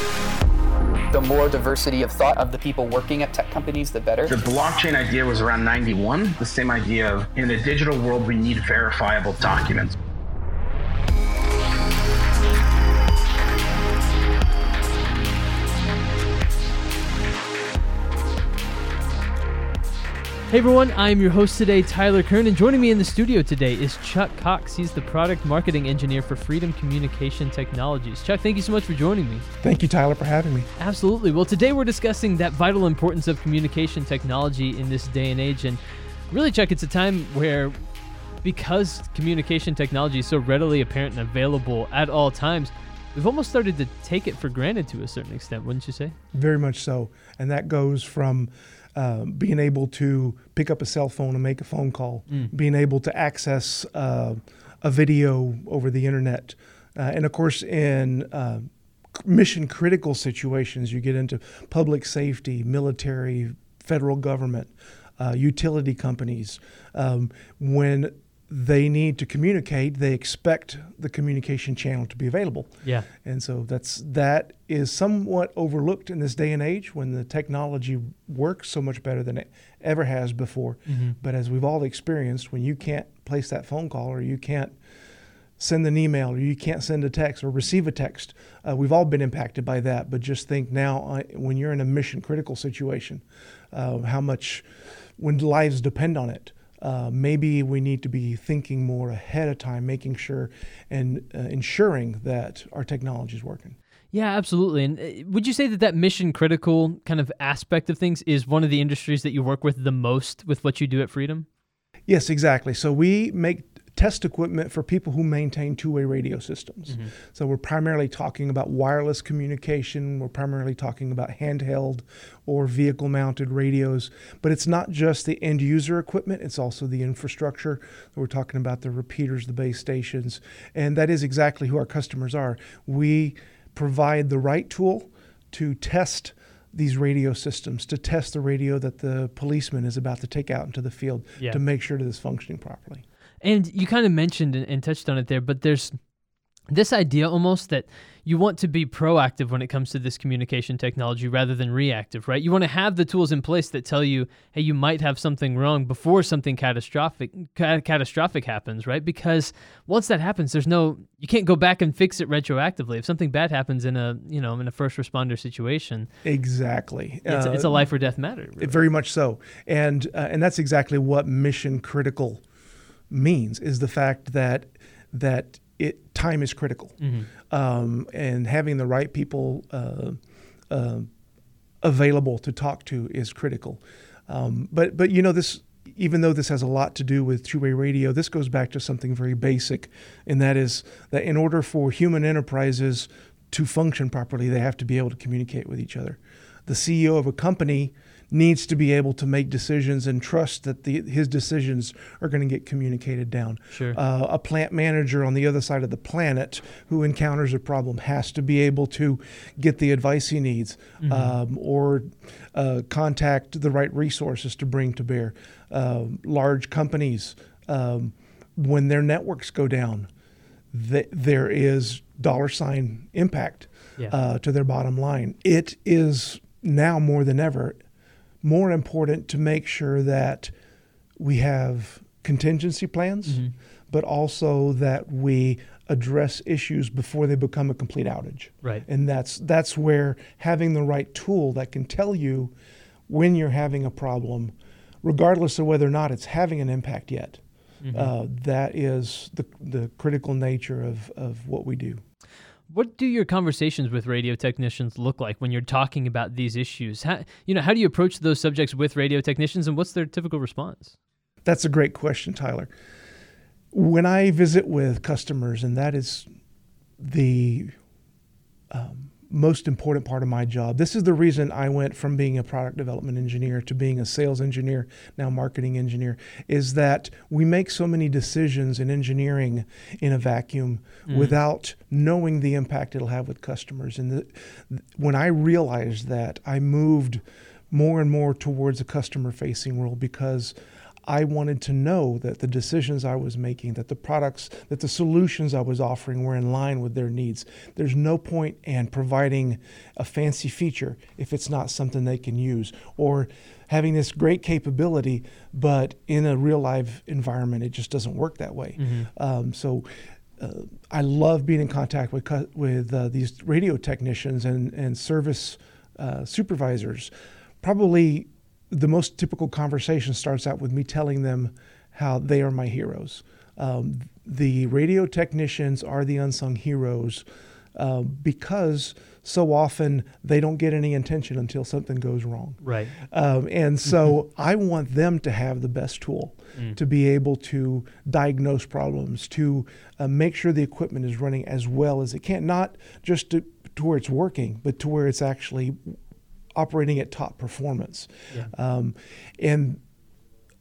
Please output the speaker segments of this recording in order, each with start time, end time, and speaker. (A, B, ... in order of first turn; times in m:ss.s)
0:01.1-0:04.4 A
0:04.3-0:09.9 B
0:20.5-0:29.4 C
0:29.6-0:30.7 D
0:30.8-0:37.8 C
0:38.4-0:46.1 C
0:46.3-1:24.7 D
1:20.9-1:21.2 C
1:25.6-1:34.6 D
1:35.2-1:43.8 D
1:44.1-1:51.5 C
1:52.1-2:23.0 D
2:23.4-2:25.9 C
2:26.7-2:46.1 C
2:46.2-2:47.9 D
2:47.2-2:48.8 C
2:48.6-2:52.4 D
2:53.1-3:00.2 D
2:57.0-2:57.3 C
3:00.7-3:01.1 D
3:01.8-3:40.1 D
3:23.7-3:24.0 C
3:31.0-3:31.4 C
3:40.7-3:47.8 D
3:48.4-3:50.5 D
3:51.2-4:02.5 D
3:53.2-3:53.5 C
4:03.1-4:07.4 D
4:07.8-4:08.1 C
4:07.9-4:12.0 D
4:12.7-4:20.9 C
4:21.4-4:22.7 D
4:23.7-4:26.3 D
4:27.0-4:27.7 D
4:28.7-4:50.5 D
4:41.1-4:41.4 C
4:51.1-5:09.8 D
5:08.8-5:09.1 C
5:10.4-5:17.1 D
5:17.6-5:46.0 D
5:32.6-5:32.9 C
5:46.5-5:49.8 D